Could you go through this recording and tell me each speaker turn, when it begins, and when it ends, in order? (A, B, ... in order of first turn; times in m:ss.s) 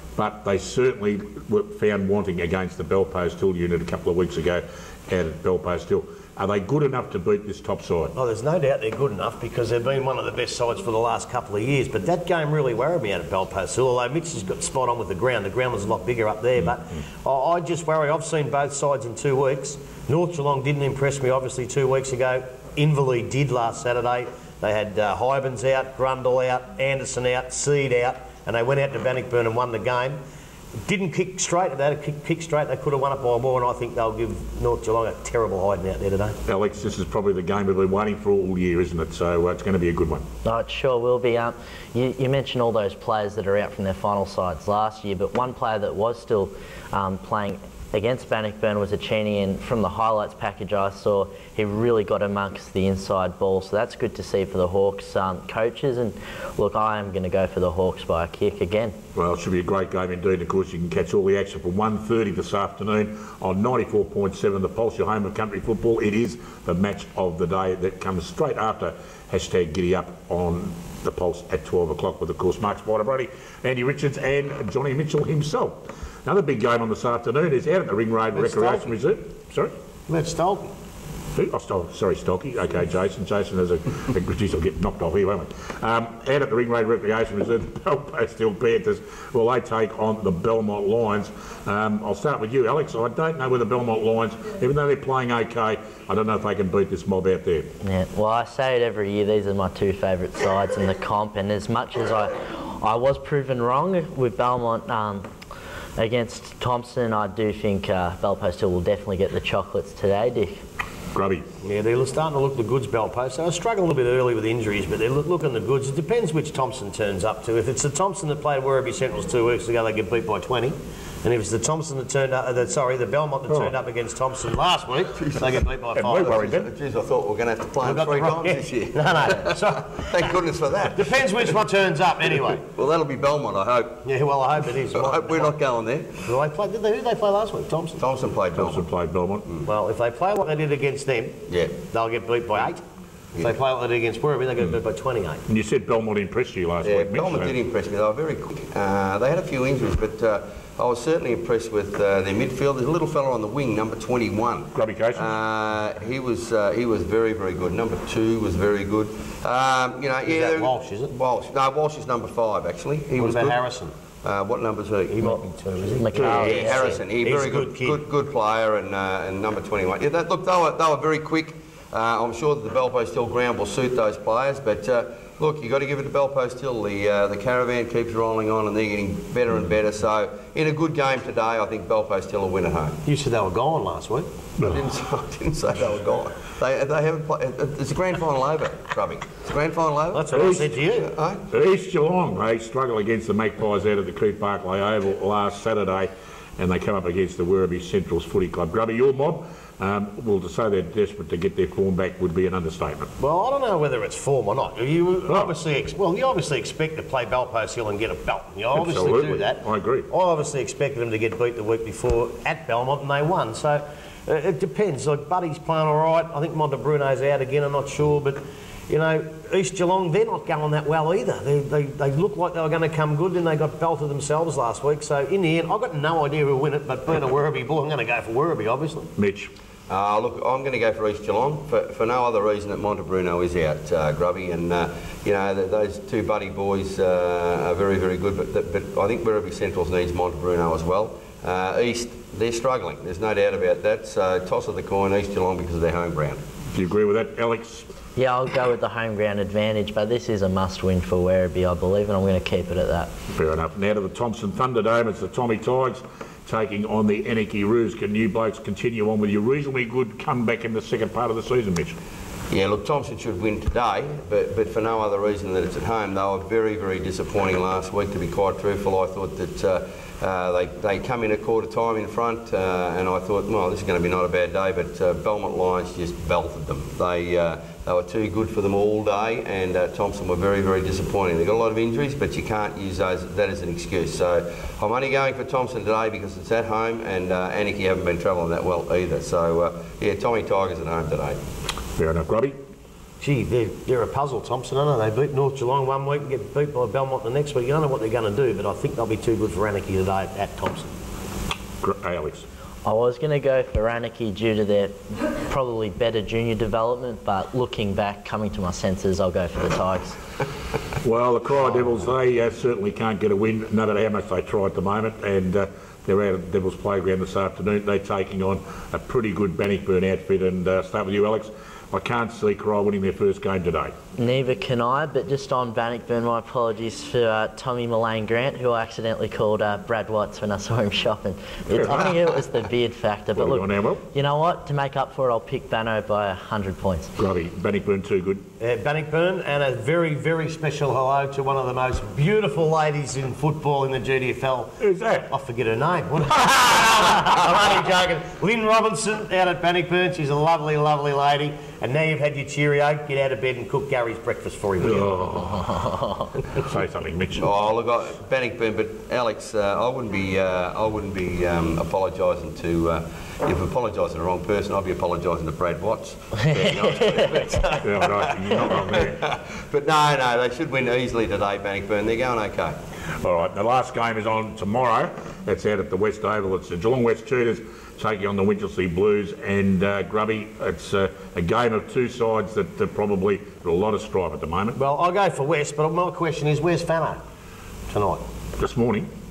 0:00.2-0:08.1 A
0:08.2-0:16.6 B
0:17.2-0:30.2 B
0:30.9-0:36.3 B
0:36.5-0:40.2 A
0:40.4-0:59.0 C
0:59.2-1:19.7 A
1:20.1-1:20.7 B
1:21.4-1:37.7 A
1:37.8-1:45.2 C
1:46.0-1:50.6 C
1:51.1-1:51.4 A
1:51.6-2:05.2 B
2:03.5-2:03.7 A
2:05.1-2:05.6 D
2:05.9-2:06.7 A
2:06.2-2:11.6 D
2:07.9-2:09.8 B
2:11.8-2:12.6 B
2:12.3-2:14.1 D
2:14.1-2:15.4 B
2:14.6-2:16.3 D
2:16.3-2:18.0 B
2:18.0-2:18.9 D
2:18.5-2:19.5 A
2:19.7-2:22.8 B
2:21.5-2:21.8 D
2:23.5-2:25.4 B
2:25.5-2:27.6 A
2:26.8-2:43.6 D
2:34.7-2:35.3 A
2:40.3-2:41.0 B
2:43.2-2:43.9 B
2:44.2-2:45.4 D
2:45.2-2:46.1 B
2:46.0-2:47.0 C
2:46.1-2:46.6 A
2:46.2-3:03.0 D
2:46.6-2:47.9 B
3:03.1-3:04.3 B
3:04.6-3:10.3 D
3:10.2-3:11.0 B
3:10.3-3:10.7 A
3:10.9-3:11.4 D
3:11.5-3:23.1 A
3:23.2-3:29.1 B
3:25.2-3:25.5 A
3:28.7-3:30.1 A
3:30.1-3:49.1 B
3:49.2-3:49.5 A
3:49.9-4:06.4 D
4:06.7-4:07.9 A
4:08.2-4:13.1 C
4:13.3-4:22.0 A
4:22.5-4:51.4 D
4:52.0-4:52.6 A
4:53.2-5:00.9 B
5:01.8-5:02.4 A
5:02.8-5:10.2 C
5:11.0-5:24.0 A
5:24.2-5:37.1 C
5:31.7-5:32.2 A
5:33.4-5:34.0 A
5:37.2-5:38.4 A
5:38.6-5:44.7 B
5:44.8-5:45.3 A
5:45.3-5:46.7 B
5:46.8-5:47.2 A
5:48.0-5:55.0 B
5:54.8-5:55.9 A
5:56.5-5:57.5 A
5:57.4-6:12.8 D
6:07.8-6:09.2 A
6:13.2-6:24.8 A
6:24.8-6:27.2 B
6:27.9-6:28.2 B
6:28.6-6:29.1 A